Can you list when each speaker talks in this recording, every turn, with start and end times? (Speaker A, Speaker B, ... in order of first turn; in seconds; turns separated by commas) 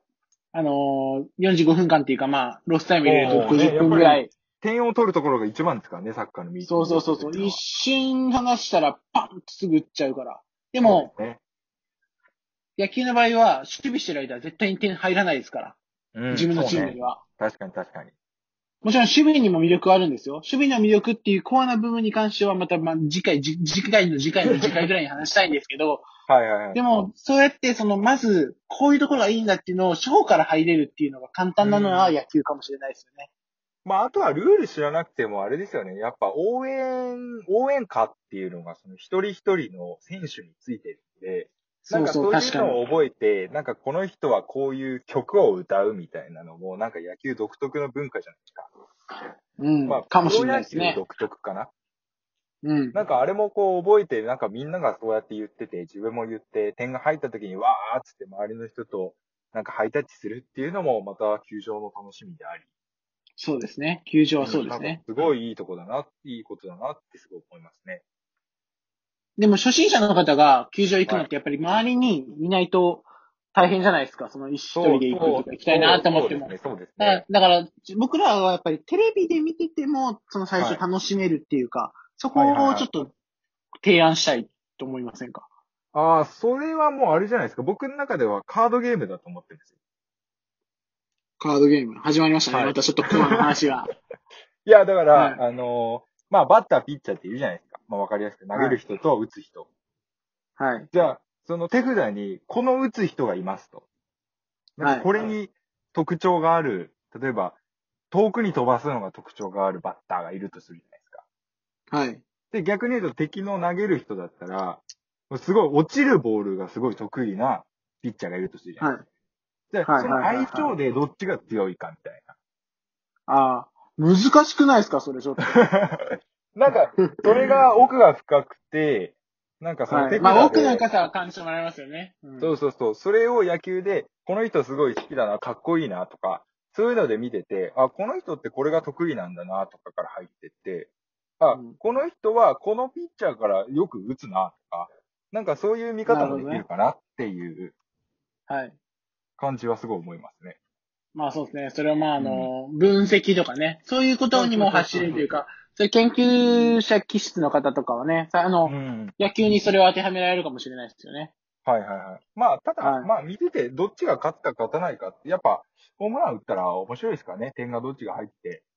Speaker A: 0.5-4.3, Speaker B: 3.0-7.6, Speaker A: 6.6-11.1, Speaker B: 10.8-11.4, Speaker A: 12.8-15.8, Speaker B: 16.1-18.1, Speaker A: 16.3-17.2, Speaker A: 18.8-26.1, Speaker B: 24.4-24.9, Speaker B: 26.3-26.8, Speaker A: 26.8-33.3, Speaker B: 31.6-32.2, Speaker B: 33.9-48.7, Speaker A: 41.9-42.8, Speaker A: 49.6-51.0, Speaker B: 49.9-51.7, Speaker A: 52.6-53.0, Speaker B: 52.9-62.6, Speaker A: 63.4-65.0, Speaker B: 64.4-68.0, Speaker A: 69.4-83.1, Speaker B: 74.7-77.2, Speaker B: 82.3-82.9, Speaker A: 83.8-85.5, Speaker B: 85.9-89.7, Speaker A: 91.4-93.9, Speaker B: 92.5-93.5, Speaker B: 94.7-99.7, Speaker A: 95.2-95.4, Speaker A: 98.5-98.8, Speaker A: 100.6-100.9, Speaker B: 100.9-103.8, Speaker B: 104.8-107.6, Speaker A: 104.8-105.1, Speaker B: 108.1-111.2, Speaker A: 111.9-112.2, Speaker B: 112.5-118.9, Speaker A: 118.8-119.0, Speaker B: 119.7-122.3, Speaker A: 119.8-120.7, Speaker A: 123.3-125.7, Speaker B: 125.4-130.8, Speaker A: 127.0-127.5, Speaker A: 129.9-132.6, Speaker B: 132.4-147.8, Speaker A: 146.1-146.7, Speaker A: 148.5-148.8, Speaker B: 149.4-150.6, Speaker A: 151.2-161.3, Speaker B: 152.2-152.5, Speaker B: 154.3-155.3, Speaker B: 156.4-156.7, Speaker B: 158.7-159.5, Speaker B: 161.7-168.7, Speaker A: 162.8-163.1